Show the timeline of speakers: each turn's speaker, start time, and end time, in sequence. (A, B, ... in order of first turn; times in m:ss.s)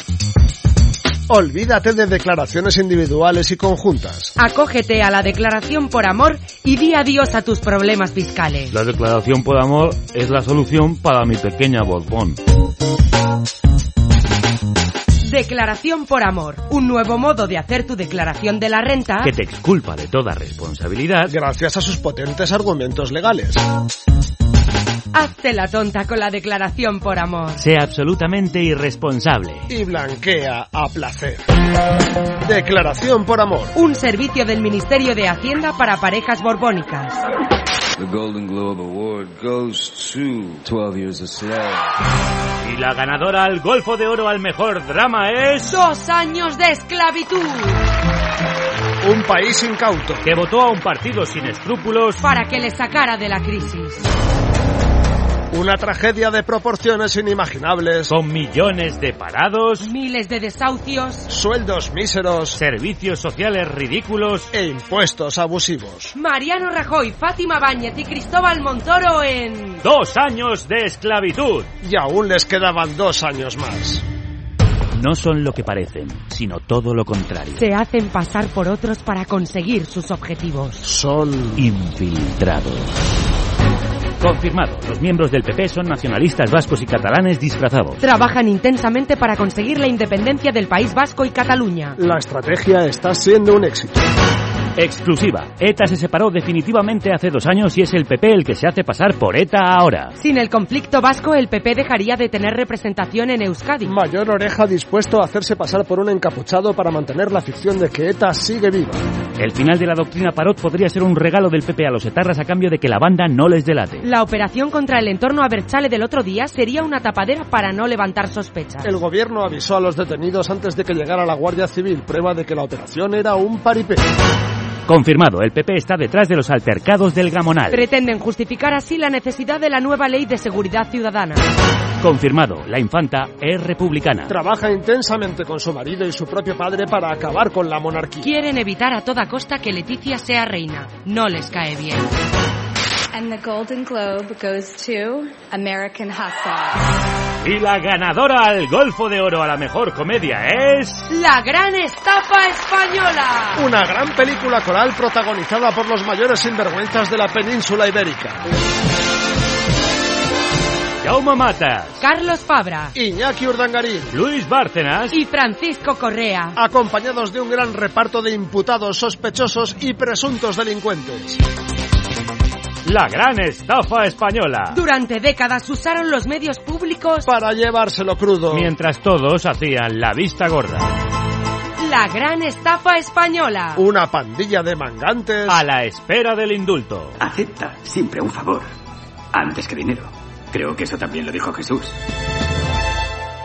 0:01.3-0:04.3 A
0:04.4-0:08.7 B
0:08.7-0:12.4 C
0:15.2-0:19.3 B
0:19.2-0:21.3 C
0:21.3-0:23.6 A
0:25.1-0:27.6 B
0:27.6-0:29.6 C
0:29.7-0:31.4 A
0:32.4-0:33.7 A
0:33.8-0:37.2 B
0:38.0-0:41.9 D
0:42.6-0:45.8 C
0:45.7-0:47.8 B
0:49.0-0:50.3 A
0:50.2-0:52.2 C
0:52.2-0:54.1 B
0:55.5-0:58.1 A
0:58.1-0:59.9 C
0:59.8-1:01.3 B
1:01.3-1:02.6 A
1:02.5-1:04.5 C
1:04.5-1:06.1 A
1:06.2-1:09.8 B
1:09.8-1:11.7 C
1:11.8-1:14.0 A
1:15.0-1:17.6 C
1:17.6-1:20.8 B
1:20.8-1:21.7 A
1:21.6-1:22.9 C
1:24.2-1:28.0 C
1:28.0-1:32.0 B
1:32.0-1:34.0 A
1:34.8-1:40.1 C
1:40.2-1:43.9 B
1:43.8-1:49.0 A
1:49.4-1:54.0 C
1:54.0-1:58.9 B
1:58.8-2:04.0 A
2:04.9-2:07.9 C
2:07.7-2:11.4 B
2:12.0-2:14.3 C
2:14.3-2:18.3 A
2:18.2-2:22.1 B
2:23.1-2:26.8 E
2:27.4-2:31.0 C
2:31.1-2:33.6 B
2:33.6-2:38.4 A
2:41.0-2:42.0 C
2:42.0-2:42.9 B
2:42.9-2:44.2 A
2:44.1-2:45.2 C
2:45.1-2:46.5 B
2:46.5-2:51.4 A
2:52.8-2:54.8 C
2:54.7-2:57.3 B
2:57.2-2:58.7 A
2:58.5-3:00.9 C
3:01.8-3:03.8 B
3:03.8-3:05.6 A
3:05.5-3:07.2 C
3:07.3-3:08.6 F
3:09.3-3:11.8 F